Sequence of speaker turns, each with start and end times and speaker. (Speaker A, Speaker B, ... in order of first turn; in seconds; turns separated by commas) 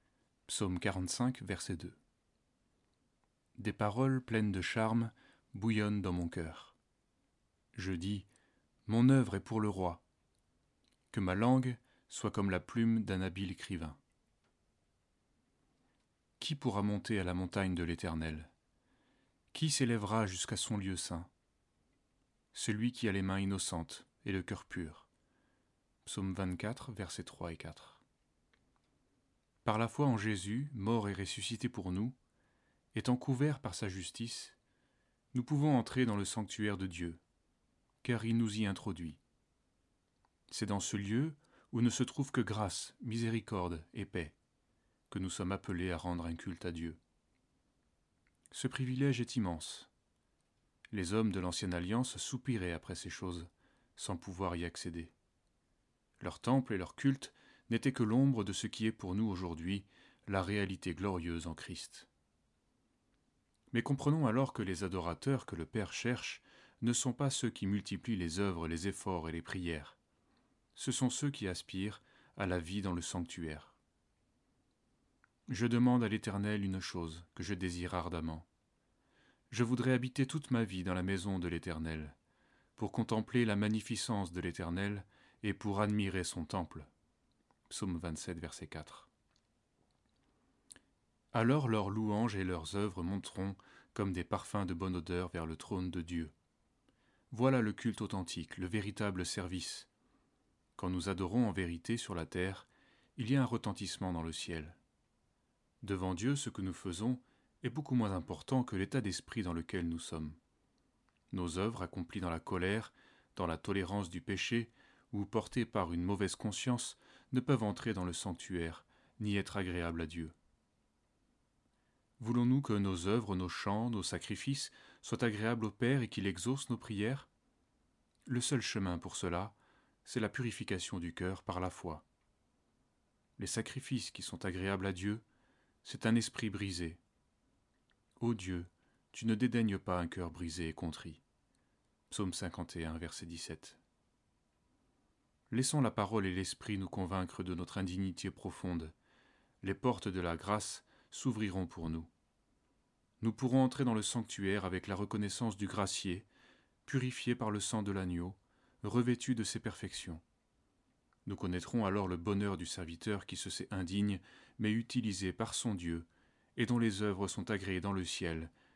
Speaker A: 0.5-2.0, Speaker A: 3.6-6.8, Speaker A: 7.7-8.3, Speaker A: 8.8-10.0, Speaker A: 11.1-14.0, Speaker A: 16.4-18.5, Speaker A: 19.5-21.3, Speaker A: 22.5-25.1, Speaker A: 26.0-28.0, Speaker A: 29.6-32.1, Speaker A: 32.9-34.6, Speaker A: 35.3-37.2, Speaker A: 38.0-39.2, Speaker A: 40.5-44.4, Speaker A: 45.1-47.0, Speaker A: 48.5-49.9, Speaker A: 50.9-55.1, Speaker A: 56.2-62.1, Speaker A: 63.7-70.0, Speaker A: 70.8-73.8, Speaker A: 75.5-78.5, Speaker A: 79.5-82.2, Speaker A: 82.8-86.9, Speaker A: 87.7-89.1, Speaker A: 91.3-96.3, Speaker A: 97.3-99.9, Speaker A: 100.8-104.8, Speaker A: 105.8-110.4, Speaker A: 111.3-120.3, Speaker A: 122.2-127.3, Speaker A: 128.2-132.0, Speaker A: 133.4-135.2, Speaker A: 135.8-137.0, Speaker A: 138.2-141.2, Speaker A: 142.1-143.8, Speaker A: 145.5-148.9, Speaker A: 149.6-152.1, Speaker A: 153.2-156.3, Speaker A: 156.8-160.2, Speaker A: 161.2-168.5